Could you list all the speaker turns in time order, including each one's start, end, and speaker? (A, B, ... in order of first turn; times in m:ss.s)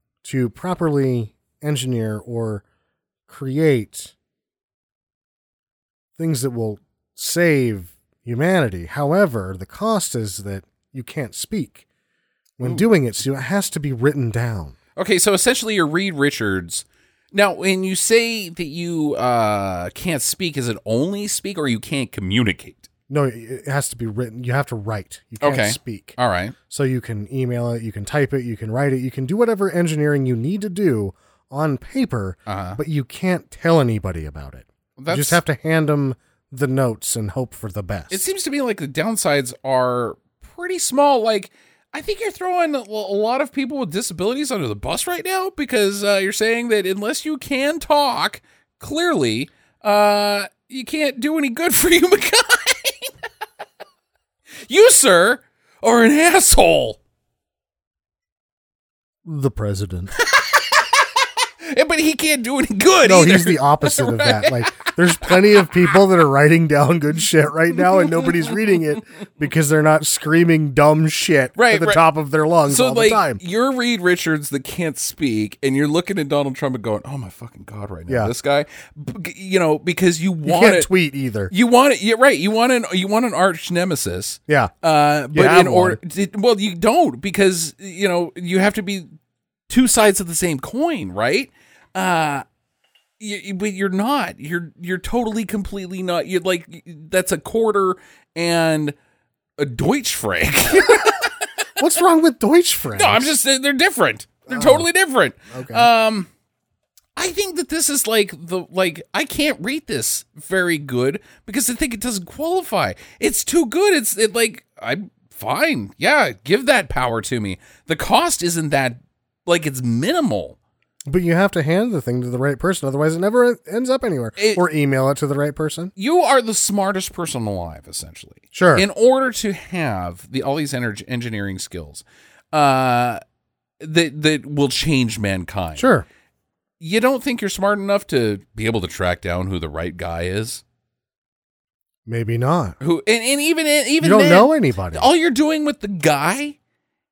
0:00.2-0:02.6 A
0:03.3-0:04.1 A
0:06.2-0:11.8 A
0:12.6-0:14.7 A
0:15.0-0:22.9 B
0:23.1-0:26.2 A
0:25.4-0:26.6 B
0:26.7-0:38.2 A
0:32.5-0:32.8 B
0:35.0-0:35.4 B
0:38.1-0:53.1 B
0:54.6-0:57.0 B
0:59.2-1:00.1 A
1:00.2-1:05.6 B
1:03.0-1:13.4 A
1:11.6-1:12.0 B
1:12.7-1:20.9 B
1:20.4-1:21.5 A
1:21.5-1:29.1 B
1:24.5-1:24.7 A
1:25.3-1:26.0 A
1:29.7-1:32.4 B
1:33.2-1:38.9 B
1:39.6-1:41.5 B
1:41.8-1:43.3 A
1:43.0-1:46.3 B
1:44.5-1:44.9 A
1:45.5-1:45.9 A
1:47.2-2:00.6 B
2:01.1-2:05.9 A
2:04.4-2:04.6 B
2:06.0-2:13.2 B
2:08.5-2:08.8 A
2:13.8-2:15.9 B
2:15.8-2:16.0 A
2:16.8-2:20.6 B
2:22.0-2:22.8 A
2:22.8-2:26.6 B
2:24.0-2:25.1 A